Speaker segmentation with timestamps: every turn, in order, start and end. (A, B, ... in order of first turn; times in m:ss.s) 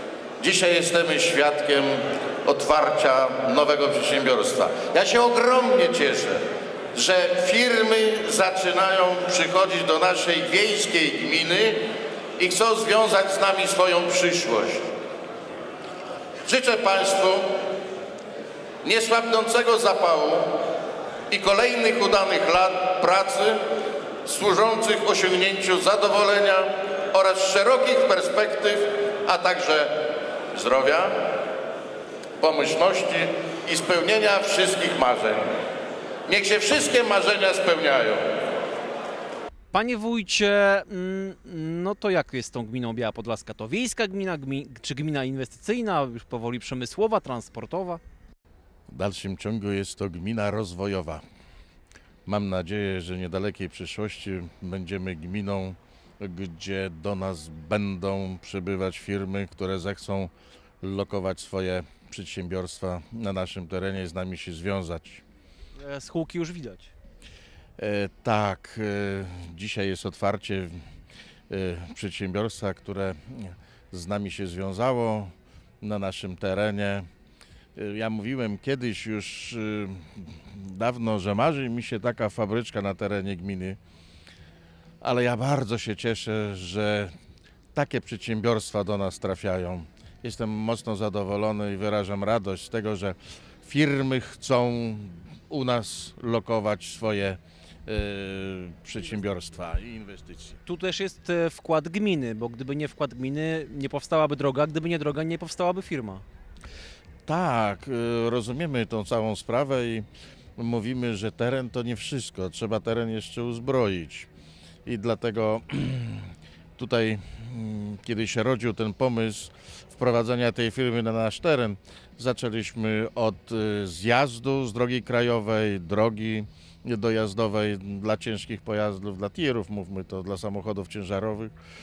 0:00.4-0:06.4 A
0:06.9-0:11.8 A
0:12.4-0:14.8 A
0:16.5-0:17.4 A
0:18.8-0:20.5 A
0:21.3-0:23.6 A
0:24.2-0:29.9 A
0:30.5-0:31.2 A
0:32.4-0:35.5 A
0:36.3-0:38.2 A
0:39.7-0:48.0 B
0:48.9-0:51.2 A
0:52.3-1:05.2 A
1:05.8-1:06.9 B
1:07.8-1:10.8 A
1:11.5-1:17.1 A
1:17.8-1:23.8 A
1:25.0-1:27.1 A
1:27.7-1:40.6 A
1:40.6-1:46.2 B
1:47.3-1:50.1 A
1:50.6-1:54.3 A
1:54.9-2:11.5 A